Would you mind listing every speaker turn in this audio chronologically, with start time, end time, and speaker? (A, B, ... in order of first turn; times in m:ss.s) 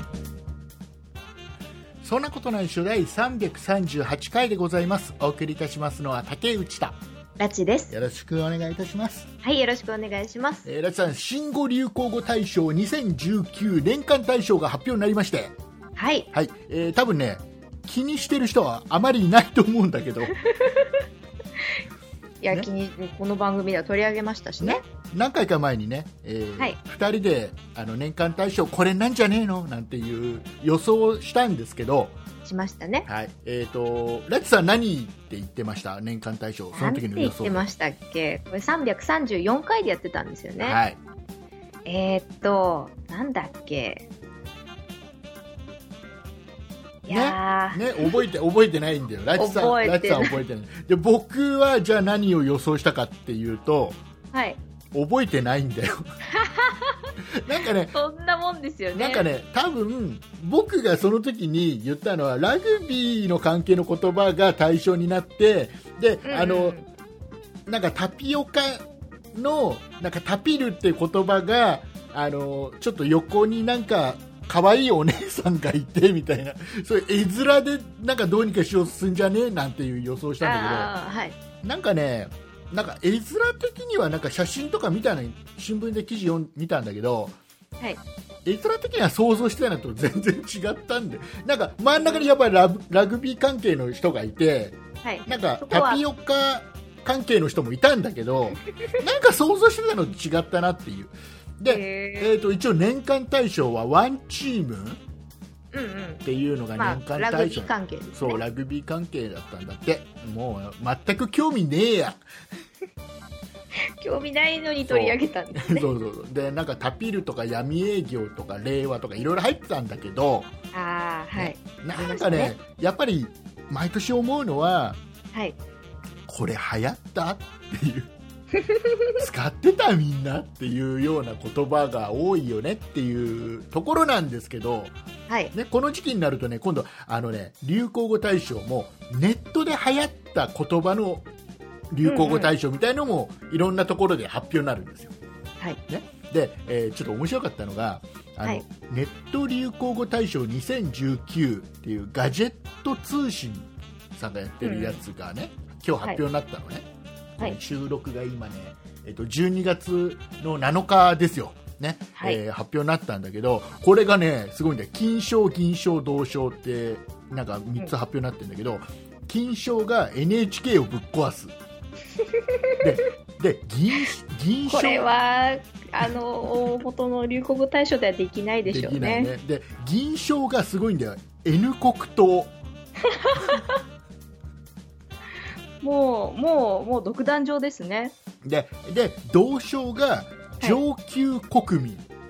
0:02.0-0:07.0 A
0:07.4-0:07.9 B
0:07.9-0:09.3 A
0:09.4-0:10.7 B
0:10.6-0:15.6 A
0:16.0-0:16.3 B
0:16.3-0:20.3 A
0:20.5-0:20.9 B
0:22.4-0:24.8 B
0:24.6-0:32.2 A
0:32.4-0:33.1 B
0:33.0-0:37.6 A
0:36.7-0:40.8 B
0:40.6-0:41.0 A
0:41.8-0:44.0 B
0:47.1-0:48.2 B
0:47.1-0:54.0 A
0:49.3-0:50.4 B
0:54.3-0:54.6 B
0:54.9-0:56.2 A
0:56.3-0:57.1 B
0:57.4-0:58.0 A
0:57.9-0:59.2 B
0:58.9-1:06.8 A
1:06.2-1:06.8 B
1:07.6-1:20.9 A
1:20.4-1:21.4 B
1:21.6-1:27.4 A
1:28.4-1:45.0 A
1:35.0-1:36.0 B
1:41.7-1:42.3 B
1:45.7-1:46.2 B
1:46.2-1:52.2 A
1:46.8-1:48.4 B
1:54.0-1:55.9 B
1:54.8-2:00.5 A
2:00.7-2:02.5 B
2:01.3-2:05.0 A
2:05.3-2:05.6 B
2:06.3-2:08.1 A
2:08.6-2:09.1 B
2:09.2-2:14.9 A
2:15.5-2:21.3 A
2:21.9-2:25.1 A
2:22.0-2:22.5 B
2:25.9-2:36.8 A
2:34.6-2:35.0 B
2:37.4-2:51.5 A
2:52.3-2:52.8 B
2:52.8-2:55.1 A
2:54.7-2:59.3 B
2:58.6-3:02.5 A
3:03.0-3:03.8 B
3:05.8-3:08.1 B
3:08.4-3:12.0 A